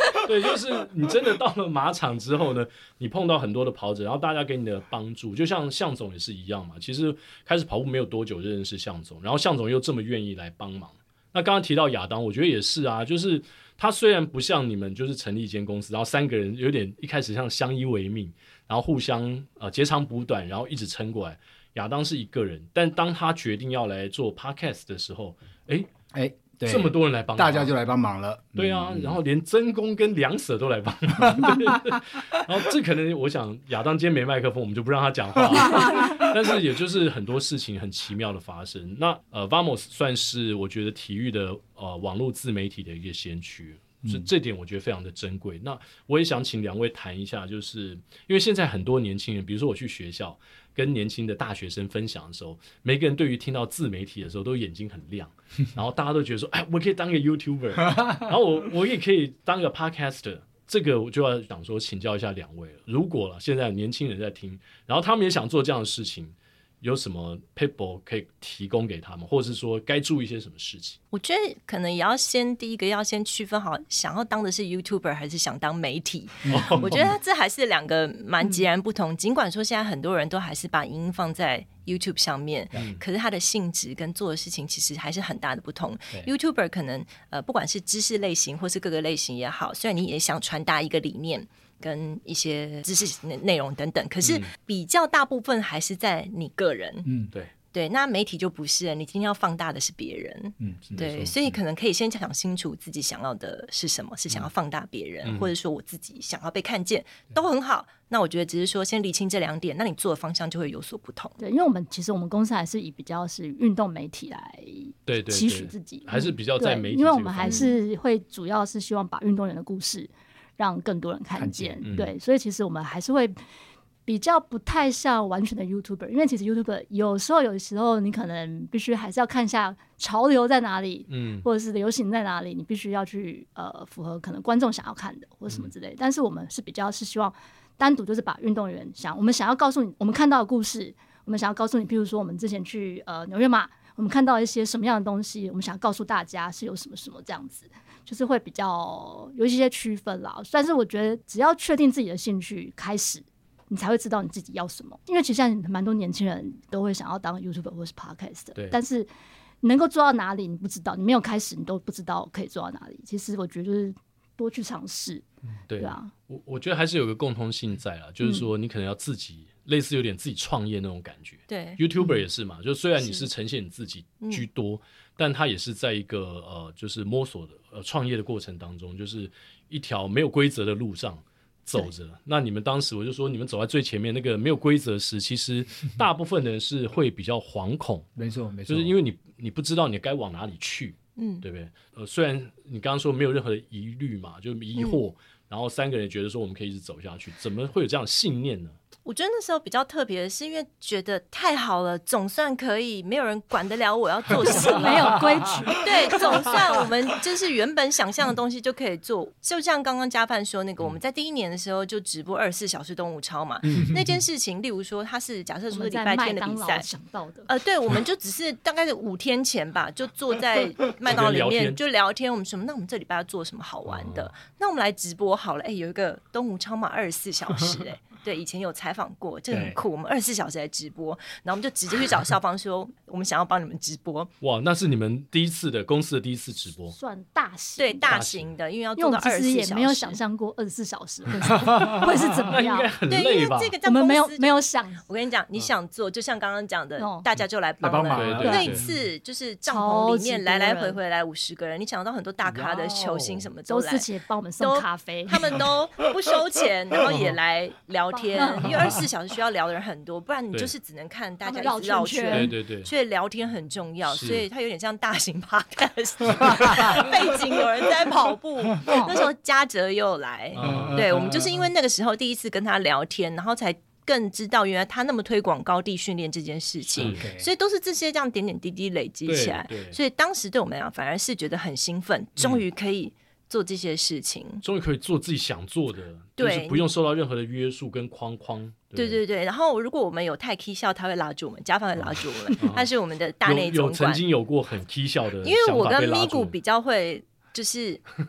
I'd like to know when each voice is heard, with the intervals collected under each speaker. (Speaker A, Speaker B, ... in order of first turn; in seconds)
Speaker A: 0.2-25.9, 26.7-27.7, 28.6-71.0, 76.5-77.1, 82.7-83.0, 94.2-94.5, 101.0-101.6, 105.2-105.5, 115.1-117.7, 121.8-122.2, 131.1-131.5, 165.7-188.1, 188.7-198.8, 213.7-213.9, 221.1-221.8, 223.9-224.3, 234.4-236.9, 238.1-238.6, 242.4-243.8, 248.1-248.9, 253.1-253.4, 257.1-257.4, 262.3-262.9, 264.1-264.4, 270.5-271.1, 276.9-277.2, 279.3-280.0, 282.4-282.6, 284.6-289.2, 292.0-292.9, 293.4-296.6
Speaker B: 26.1-29.2, 31.2-31.8, 44.0-44.3, 76.5-77.1, 97.0-97.3, 100.6-101.3, 121.4-121.9, 188.2-188.9, 204.9-205.7, 229.5-229.8, 241.7-242.0, 247.8-248.9, 252.5-253.3, 270.6-271.7, 276.9-277.5
Speaker C: 71.1-97.1, 97.7-111.4, 117.4-117.8, 171.5-172.0, 173.0-173.3, 191.2-191.4, 199.1-205.3, 205.8-216.9, 217.5-234.3, 237.8-240.2, 243.1-254.1, 254.6-284.6, 286.4-286.9, 288.9-294.2, 295.4-298.0
Speaker D: 111.4-123.3, 124.1-159.1, 159.6-165.2, 165.8-166.1, 204.4-206.5, 215.7-217.5, 236.9-238.2, 239.0-242.9, 243.8-245.0, 247.0-247.3, 248.4-248.7, 249.7-251.0, 253.7-255.6, 258.1-258.8, 261.4-262.5, 268.9-269.1